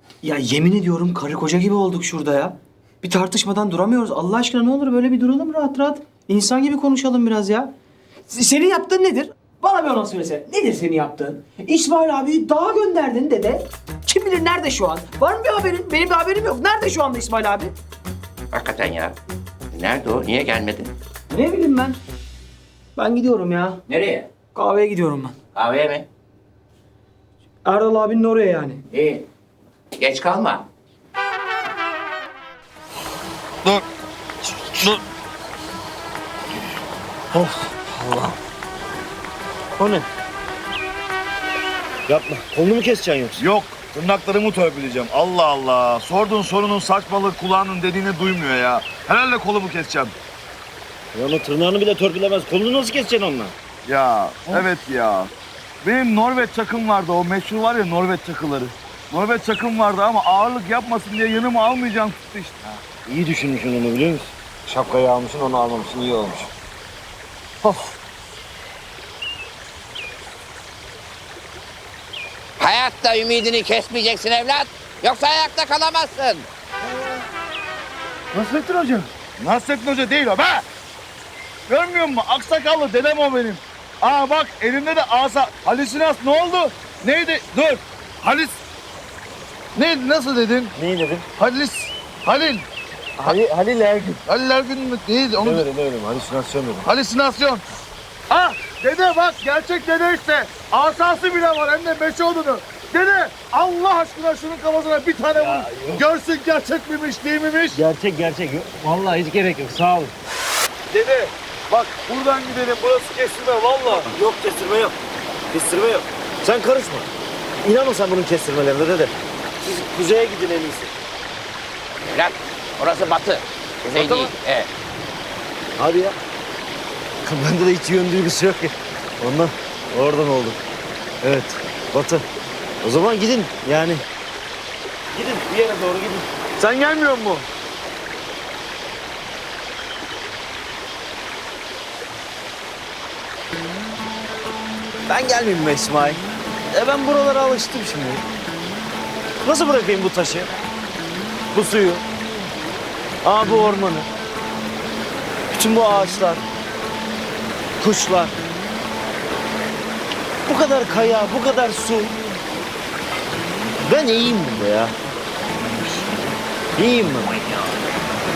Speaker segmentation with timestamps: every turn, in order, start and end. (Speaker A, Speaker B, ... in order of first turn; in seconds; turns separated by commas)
Speaker A: 0.2-7.7, Speaker A: 8.3-17.7, Speaker B: 18.5-19.1, Speaker B: 19.7-20.9, Speaker A: 21.3-22.0, Speaker A: 22.9-23.8, Speaker B: 23.9-24.3, Speaker A: 24.5-25.4, Speaker B: 25.5-26.1, Speaker A: 27.6-28.8, Speaker B: 28.9-29.2, Speaker B: 30.0-30.6, Speaker C: 34.7-35.0, Speaker D: 37.3-38.4, Speaker D: 39.7-40.1, Speaker D: 42.1-43.4, Speaker C: 43.4-50.1, Speaker D: 51.1-53.5, Speaker C: 53.9-55.3, Speaker C: 55.8-62.6, Speaker D: 63.0-66.5, Speaker D: 67.6-67.9, Speaker B: 72.6-76.5, Speaker D: 78.3-79.1, Speaker C: 79.4-80.6, Speaker C: 81.7-88.6, Speaker C: 89.7-90.7, Speaker D: 90.7-91.3, Speaker C: 91.4-92.7, Speaker D: 93.2-94.2, Speaker C: 94.2-95.7, Speaker D: 95.4-96.9, Speaker C: 96.8-97.6, Speaker C: 98.3-107.8, Speaker D: 105.3-106.0, Speaker D: 107.7-110.1, Speaker C: 110.9-114.1, Speaker D: 113.9-114.9, Speaker D: 115.5-117.1, Speaker D: 117.6-120.9, Speaker B: 122.0-124.7, Speaker D: 123.9-124.3, Speaker D: 125.8-126.2, Speaker D: 127.2-130.6, Speaker D: 131.2-132.2, Speaker D: 132.8-134.0, Speaker D: 135.1-137.4, Speaker D: 145.1-148.2, Speaker D: 149.4-150.5, Speaker D: 151.5-152.0, Speaker D: 153.2-154.1, Speaker D: 155.5-156.4, Speaker D: 157.8-158.4, Speaker D: 160.4-162.1, Speaker D: 163.8-164.9, Speaker D: 166.8-167.6